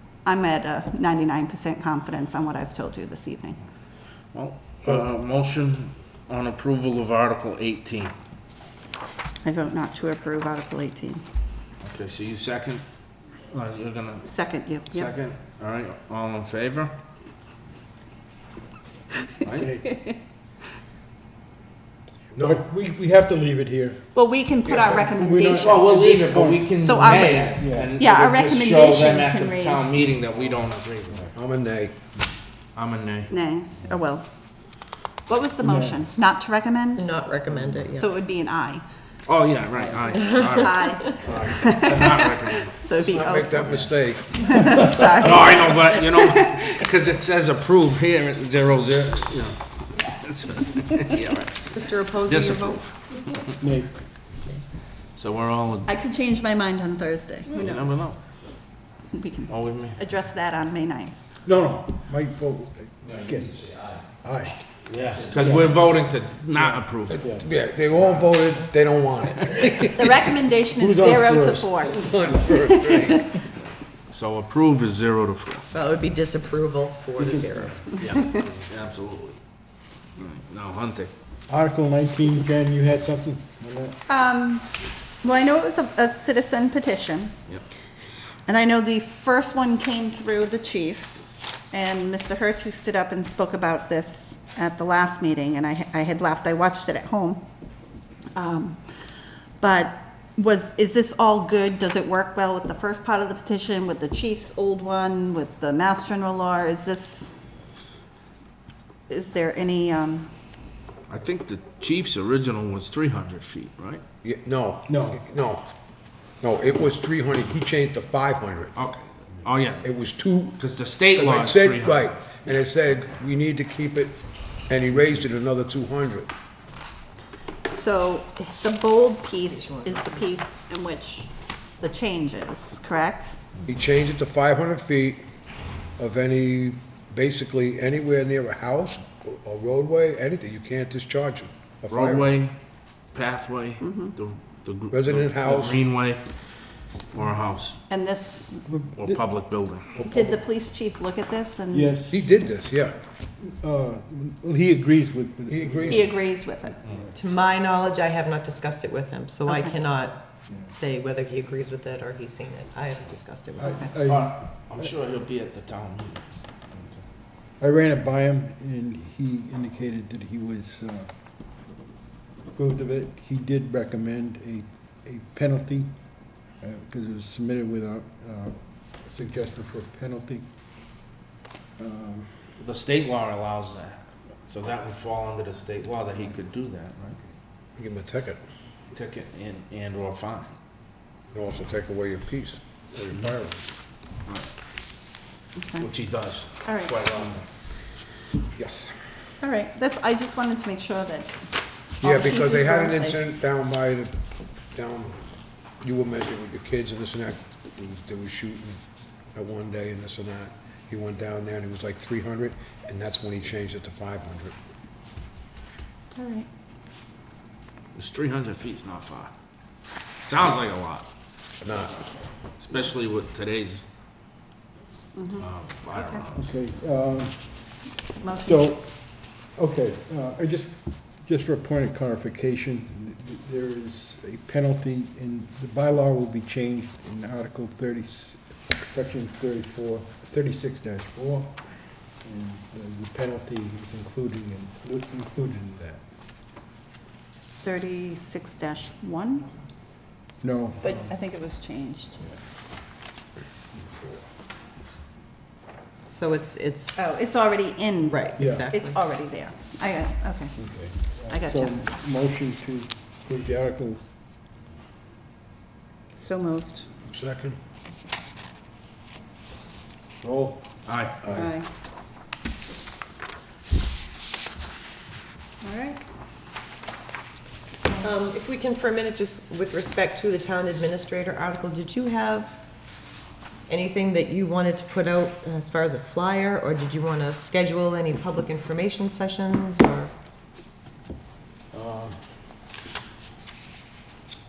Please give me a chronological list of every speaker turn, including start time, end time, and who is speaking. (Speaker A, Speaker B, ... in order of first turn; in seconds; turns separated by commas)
Speaker A: 0.2-3.6, Speaker B: 4.3-8.1, Speaker A: 9.4-11.2, Speaker B: 11.8-12.8, Speaker B: 13.5-16.9, Speaker A: 14.2-15.1, Speaker B: 19.4-19.7, Speaker C: 19.6-20.1, Speaker D: 22.3-22.6, Speaker C: 22.4-24.0, Speaker A: 24.1-25.9, Speaker D: 24.7-26.4, Speaker B: 25.6-31.3, Speaker C: 26.0-26.7, Speaker A: 26.8-29.8, Speaker C: 27.6-27.9, Speaker D: 31.3-31.9, Speaker B: 32.8-33.3, Speaker A: 33.3-34.3, Speaker A: 35.3-37.1, Speaker C: 35.6-36.0, Speaker E: 37.0-38.0, Speaker A: 38.0-38.8, Speaker B: 39.3-42.8, Speaker A: 40.2-46.8, Speaker D: 41.2-41.7, Speaker D: 43.0-44.8, Speaker B: 45.2-53.4, Speaker E: 51.7-52.8, Speaker C: 53.5-54.5, Speaker B: 55.1-55.9, Speaker A: 55.9-58.0, Speaker B: 57.5-58.2, Speaker A: 59.1-61.2, Speaker B: 59.5-60.0, Speaker C: 61.5-64.6, Speaker B: 64.9-67.3, Speaker C: 65.3-65.8, Speaker C: 66.5-67.5, Speaker D: 67.2-70.0, Speaker A: 69.9-73.4, Speaker C: 70.8-72.0, Speaker D: 71.9-73.3, Speaker B: 74.1-75.7, Speaker E: 75.7-77.9, Speaker C: 77.2-77.8, Speaker B: 78.0-79.4, Speaker A: 78.1-78.5, Speaker B: 80.2-81.1, Speaker C: 81.5-84.0, Speaker A: 84.1-87.4, Speaker A: 88.5-97.5, Speaker A: 98.4-99.1, Speaker A: 99.6-107.4, Speaker A: 109.1-110.3, Speaker B: 111.1-114.0, Speaker D: 114.2-115.7, Speaker C: 114.9-115.2, Speaker D: 116.4-118.8, Speaker B: 118.8-119.9, Speaker D: 119.8-120.6, Speaker B: 120.6-122.2, Speaker D: 121.1-126.3, Speaker A: 127.7-133.4, Speaker D: 133.7-135.3, Speaker D: 136.0-142.3, Speaker B: 141.9-142.6, Speaker B: 143.1-146.2, Speaker A: 143.8-144.2, Speaker D: 144.9-145.8, Speaker B: 147.1-147.8, Speaker A: 147.9-148.7, Speaker C: 148.7-149.2, Speaker B: 149.0-149.9, Speaker C: 150.0-150.3, Speaker A: 150.0-152.0, Speaker C: 151.7-152.2, Speaker D: 152.1-153.0, Speaker C: 153.4-157.1, Speaker D: 155.5-156.1, Speaker A: 155.9-156.8, Speaker E: 157.2-163.8, Speaker A: 159.5-159.8, Speaker C: 160.5-160.7, Speaker C: 163.6-164.4, Speaker A: 163.7-163.9, Speaker B: 164.0-166.2, Speaker C: 167.6-171.1, Speaker C: 172.5-180.5, Speaker C: 181.8-182.6, Speaker B: 182.6-187.2, Speaker D: 187.8-188.4, Speaker B: 188.9-190.5, Speaker D: 191.3-193.6, Speaker A: 195.6-195.9, Speaker B: 195.8-197.5, Speaker A: 196.6-197.0, Speaker D: 198.6-199.0, Speaker A: 199.4-201.4, Speaker A: 202.0-203.4, Speaker D: 202.0-204.2, Speaker D: 204.7-205.2, Speaker D: 205.8-208.8, Speaker D: 209.3-214.6, Speaker A: 216.2-216.5, Speaker B: 217.9-219.3, Speaker B: 220.2-221.1, Speaker D: 221.6-222.0, Speaker B: 222.6-223.8, Speaker A: 225.2-226.3, Speaker B: 225.4-226.5, Speaker C: 226.3-246.1, Speaker A: 228.2-228.7, Speaker A: 247.6-249.5, Speaker C: 250.4-251.1, Speaker A: 250.8-252.2, Speaker C: 253.9-254.2, Speaker E: 256.1-256.9, Speaker A: 257.0-260.6, Speaker E: 258.1-259.0, Speaker C: 258.4-258.7, Speaker C: 260.6-264.1, Speaker A: 261.3-261.9, Speaker A: 266.1-266.9, Speaker D: 267.1-267.6, Speaker C: 270.2-270.7, Speaker B: 270.9-271.3, Speaker D: 271.2-271.5, Speaker A: 271.3-271.7, Speaker A: 275.6-276.0, Speaker E: 278.0-282.6, Speaker E: 283.7-290.1, Speaker B: 291.8-292.1